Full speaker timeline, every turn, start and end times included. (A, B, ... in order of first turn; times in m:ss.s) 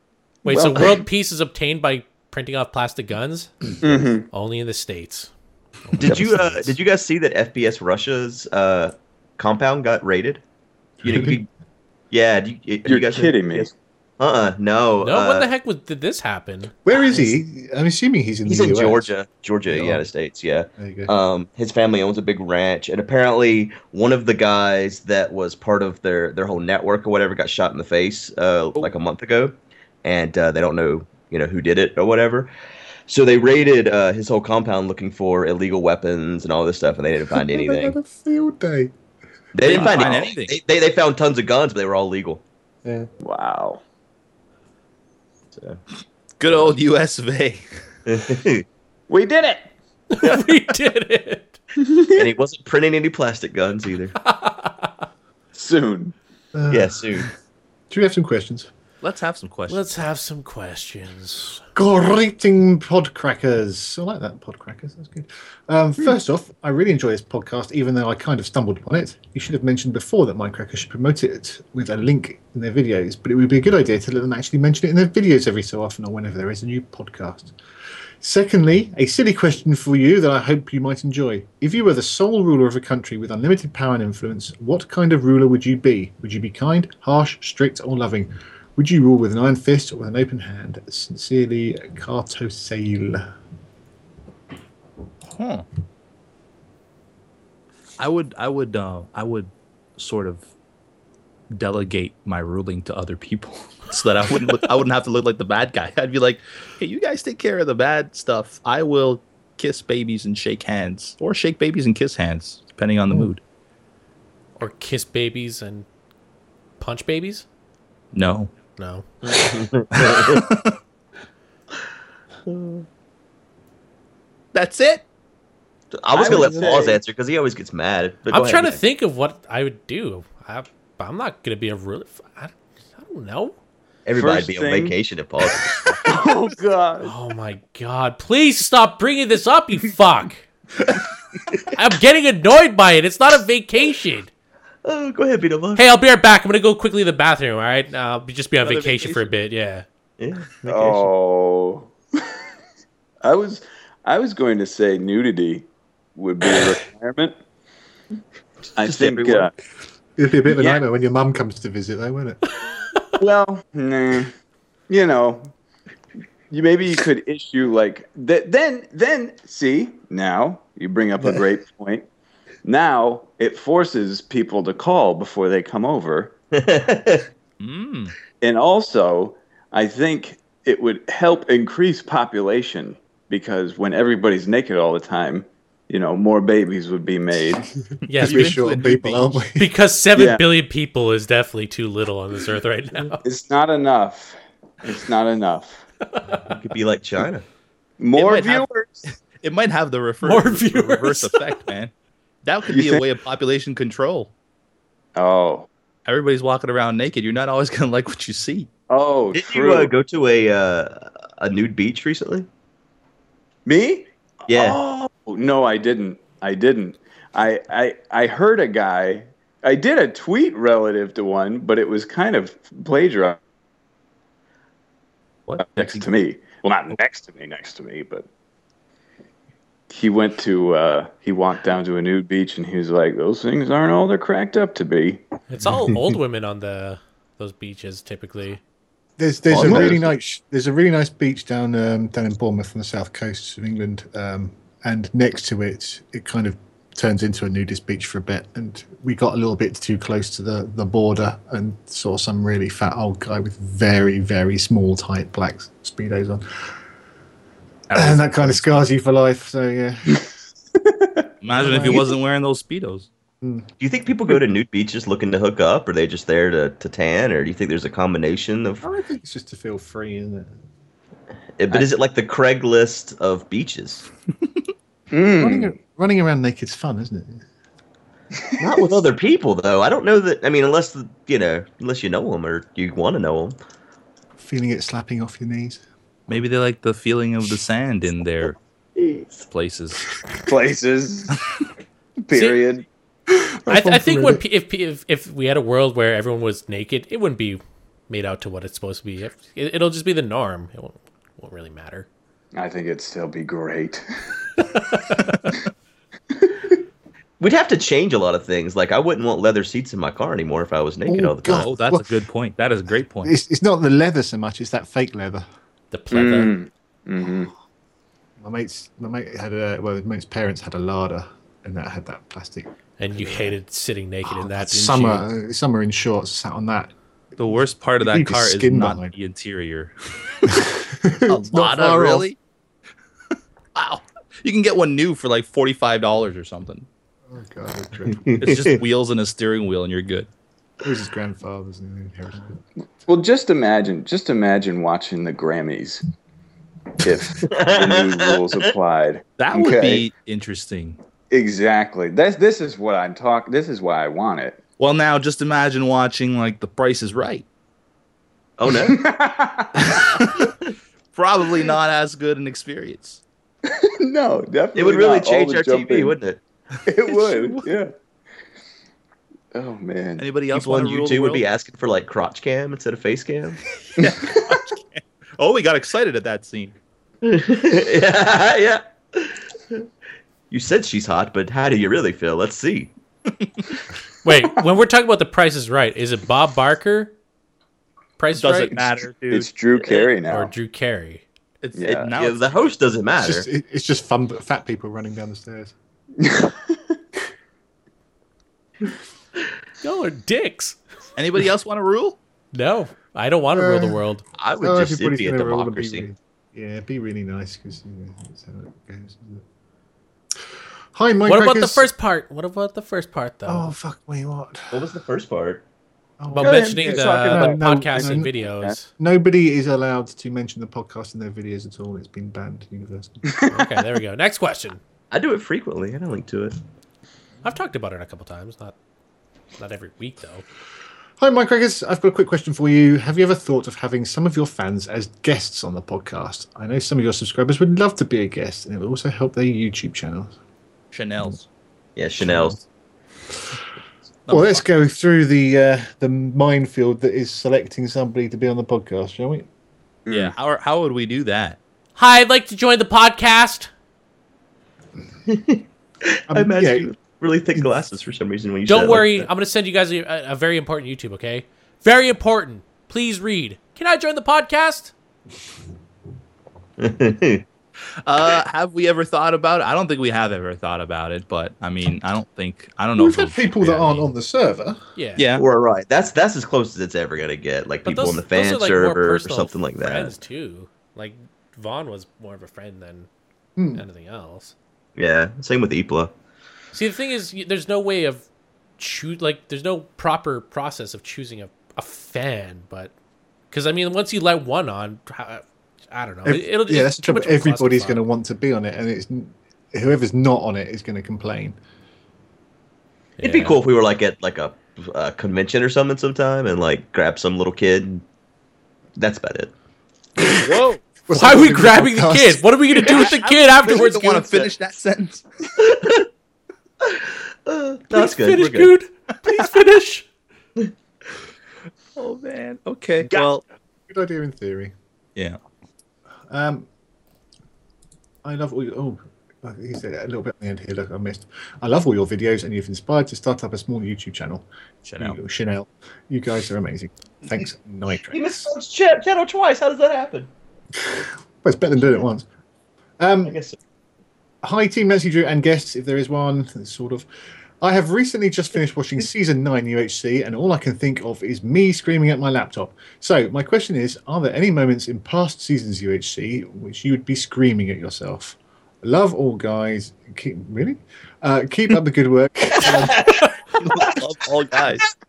0:00.4-0:05.3 A
0:00.5-0:01.0 B
0:03.8-0:04.3 B
0:05.9-0:06.7 A
0:06.0-0:10.4 C
0:11.0-0:11.5 C
0:11.0-0:11.4 D
0:12.1-0:15.5 C
0:12.9-0:13.7 B
0:15.0-0:16.8 A
0:16.8-0:19.1 D
0:16.9-0:17.4 C
0:18.5-0:32.5 C
0:19.7-0:20.0 D
0:20.8-0:21.1 D
0:33.1-0:38.0 C
0:37.3-0:38.9 D
0:39.5-0:42.4 C
0:39.6-0:40.5 E
0:39.7-0:40.1 B
0:43.2-0:43.8 B
0:45.6-0:45.8 C
0:46.4-0:47.7 E
0:48.1-0:48.6 C
0:49.1-0:49.7 B
0:50.1-0:51.6 A
0:51.8-0:52.2 B
0:52.2-0:54.2 C
0:54.2-0:54.9 A
0:55.5-0:56.2 B
0:56.6-0:57.3 D
0:56.7-0:57.3 C
0:57.9-0:58.7 D
0:59.0-0:59.9 E
0:59.7-1:01.6 A
1:01.8-1:17.5 D
1:18.2-1:33.3 D
1:35.3-1:35.7 E
1:38.0-1:40.5 E
1:41.5-1:53.4 E
1:54.6-1:55.9 A
1:56.8-1:57.4 A
1:58.1-1:58.5 E
1:58.8-1:59.3 A
1:59.2-2:00.4 C
1:59.9-2:00.8 E
2:02.5-2:02.8 C
2:04.5-2:05.0 E
2:05.9-2:08.8 C
2:06.1-2:07.0 B
2:08.3-2:13.6 A
2:14.1-2:16.0 C
2:14.2-2:15.0 B
2:16.0-2:17.1 B
2:17.0-2:20.5 A
2:21.7-2:24.3 A
2:24.8-2:25.8 C
2:25.8-2:29.8 A
2:28.6-2:29.3 E
2:30.2-2:30.6 C
2:30.6-2:31.1 A
2:30.6-2:32.4 B
2:33.2-2:37.4 B
2:38.8-2:39.5 B
2:38.8-2:39.5 C
2:40.2-2:42.4 D
2:43.2-2:44.3 B
2:44.9-2:45.5 B
2:46.5-2:52.1 B
2:52.6-2:56.3 B
2:56.5-2:57.3 C
2:57.6-2:58.2 E
2:58.4-3:07.7 B
3:08.1-3:09.4 E
3:08.1-3:08.6 A
3:08.2-3:09.7 D
3:09.6-3:13.2 A
3:10.2-3:10.4 B
3:13.2-3:15.8 B
3:16.1-3:16.5 A
3:16.5-3:17.4 C
3:18.0-3:19.0 B
3:18.2-3:21.9 E
3:20.2-3:21.4 A
3:22.4-3:24.3 E
3:22.7-3:23.0 B
3:25.2-3:25.7 B
3:26.1-3:28.7 E
3:28.9-3:29.9 B
3:29.3-3:32.5 C
3:33.7-3:43.4 B
3:34.5-3:34.9 C
3:45.5-3:46.0 E
3:45.6-3:48.3 B
3:49.9-3:55.2 B
3:55.5-3:58.6 A
3:59.2-4:16.7 D
3:59.5-4:00.0 B
3:59.6-4:00.0 C
4:17.9-4:18.8 E
4:17.9-4:20.3 D
4:20.8-4:21.3 B
4:21.4-4:23.1 E
4:21.5-4:22.1 D
4:23.4-4:23.7 D
4:23.8-4:28.8 C
4:28.8-4:30.5 D
4:31.6-4:34.1 C
4:35.1-4:35.7 B
4:35.4-4:37.5 D
4:38.6-4:43.6 C
4:44.4-4:45.8 D
4:46.3-4:48.6 E
4:49.0-4:49.4 C
4:49.5-4:50.2 E
4:50.5-4:51.4 B
4:52.2-4:52.9 B
4:52.3-4:52.6 A
4:53.3-4:54.4 D
4:53.7-5:02.1 A
5:02.5-5:04.6 B
5:04.7-5:05.4 A
5:06.4-5:06.6 B
5:07.4-5:11.7 C
5:11.1-5:12.2 D
5:11.5-5:13.3 E
5:13.2-5:15.4 D
5:15.9-5:16.6 A
5:16.1-5:17.5 B
5:18.4-5:23.5 D
5:23.0-5:25.2 A
5:24.3-5:26.9 D
5:27.4-5:30.6 E
5:28.0-5:29.1 D
5:30.5-5:32.3 D
5:31.3-5:32.4 E
5:33.8-5:36.9 E
5:37.3-5:38.4 D
5:38.2-5:38.7 C
5:38.4-5:40.3 E
5:40.8-5:42.6 D
5:43.1-5:46.0 B
5:47.0-5:50.1 B
5:47.4-5:48.6 C
5:49.4-5:51.0 E
5:51.3-5:54.6 B
5:54.8-5:57.4 E
5:58.6-5:59.0 C
5:58.8-6:00.0 B
5:59.8-6:00.5 E
6:01.1-6:03.2 E
6:03.6-6:06.2 B
6:04.8-6:06.4 C
6:06.8-6:07.9 B
6:07.1-6:07.7 E
6:09.5-6:10.3 B
6:10.2-6:11.4 E
6:10.5-6:13.6 C
6:14.0-6:16.8 E
6:14.0-6:14.6 B
6:17.2-6:19.8 C
6:20.5-6:22.9 C
6:24.2-6:27.1 A
6:28.2-6:28.9 A
6:28.4-6:29.5 E
6:29.3-6:30.5 B
6:30.3-6:31.2 A
6:31.6-6:32.7 E
6:31.8-6:32.1 B
6:31.8-6:33.5 C
6:33.2-6:35.8 D
6:36.2-6:37.0 B
6:39.8-6:40.8 A
6:41.2-6:42.2 E
6:42.5-6:44.2 A
6:43.6-6:44.0 D
6:44.4-6:46.1 C
6:44.6-6:49.4 D
6:50.9-6:51.9 D
6:51.3-6:53.7 A
6:53.5-6:54.9 D
6:54.7-6:55.6 C
6:56.2-6:58.3 D
6:56.3-6:58.9 A
6:56.4-6:58.8 B
6:59.0-7:03.3 D
7:03.3-7:03.7 B
7:03.5-7:04.8 A
7:05.1-7:06.6 C
7:07.4-7:08.8 A
7:09.6-7:10.4 A
7:11.2-7:20.3 D
7:20.9-7:21.4 E
7:22.0-7:22.6 C
7:22.2-7:22.6 D
7:24.3-7:24.7 E
7:24.3-7:29.5 D
7:30.1-7:30.3 B
7:30.1-7:31.6 E
7:32.0-7:33.7 A
7:35.3-7:39.1 C
7:36.3-7:36.9 D
7:38.7-7:44.9 A
7:46.8-7:47.4 C
7:48.0-7:54.1 E
7:53.0-7:54.8 D
7:55.0-7:55.2 A
7:55.2-7:55.4 E
7:55.4-8:00.1 C
7:57.8-8:03.1 A
8:03.6-8:03.8 D
8:03.7-8:04.6 A
8:05.0-8:06.1 C
8:06.7-8:08.3 A
8:08.8-8:12.9 A
8:13.5-8:18.0 A
8:16.2-8:21.6 D
8:23.2-8:23.6 A
8:23.2-8:28.0 C
8:29.0-8:29.5 C
8:30.4-8:30.8 E
8:31.1-8:32.4 D
8:31.1-8:34.4 A
8:32.8-8:35.3 E
8:35.6-8:36.1 C
8:36.8-8:38.7 C
8:37.9-8:40.1 A
8:42.0-8:43.4 E
8:43.9-8:44.7 D
8:46.3-8:46.7 D
8:48.2-8:54.4 D
8:54.8-8:55.2 E
8:55.0-8:58.4 D
8:58.1-9:00.3 C
9:00.8-9:02.2 D
9:03.0-9:03.4 D
9:03.3-9:03.6 C
9:04.4-9:07.1 D
9:07.6-9:23.1 D
9:22.6-9:23.3 C
9:23.6-9:24.9 E